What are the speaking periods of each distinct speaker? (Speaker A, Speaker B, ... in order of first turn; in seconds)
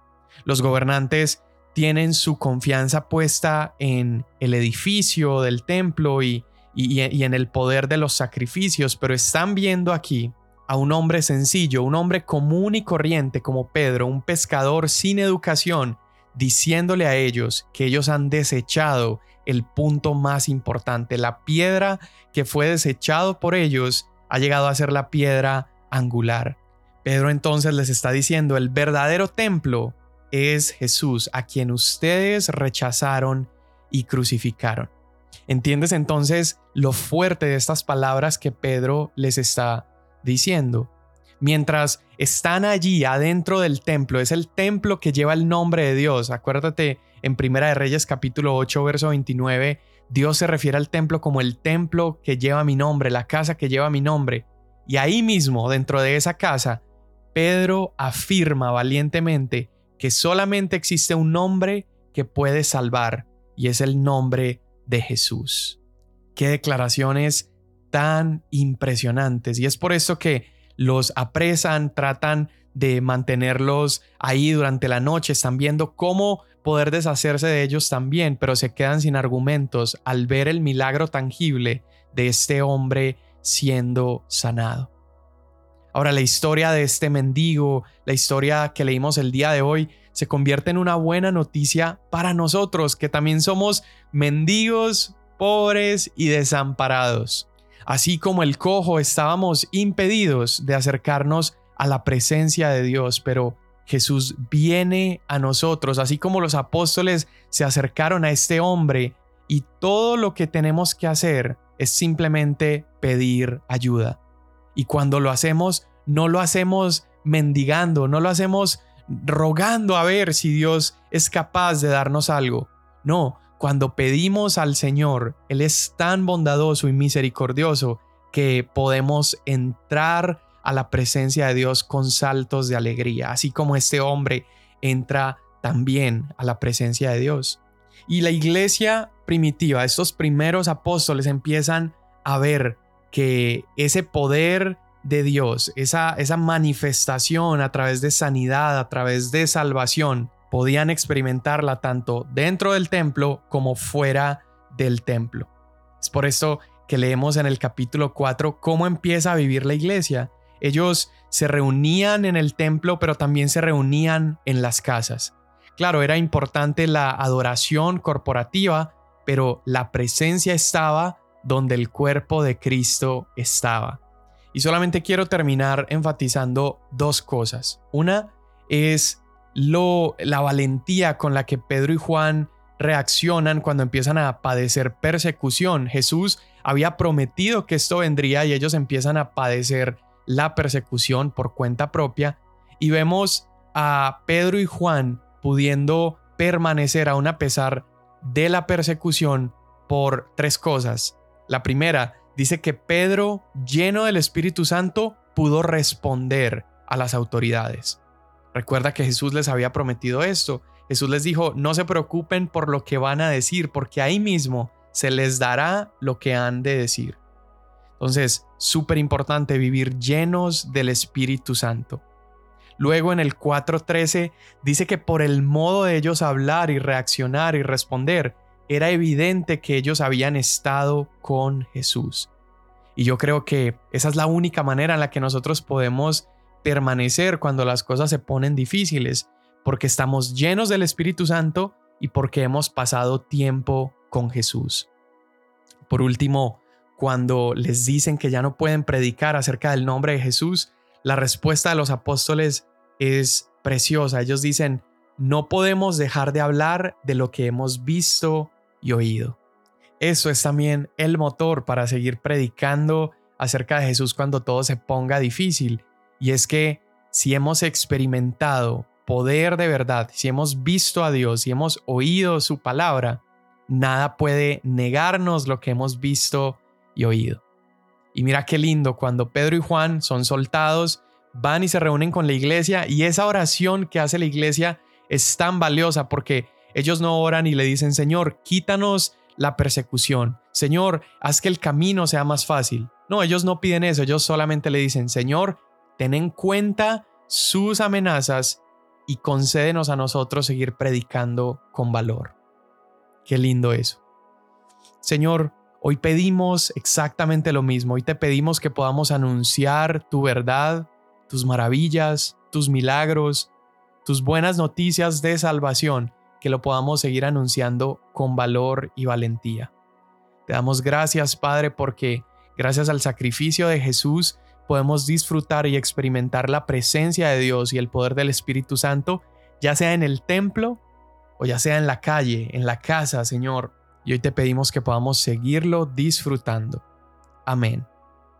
Speaker A: 0.5-34.9, 35.5-56.8, 57.3-65.8, 66.3-84.9, 85.9-114.2, 114.7-174.0, 174.5-208.0, 208.5-217.2, 218.0-222.0, 222.8-232.3, 232.9-244.9, 245.9-259.4, 260.0-277.4, 278.1-302.4, 303.2-304.0, 305.0-313.5, 314.0-319.7, 320.5-330.8, 331.4-336.8, 337.4-337.9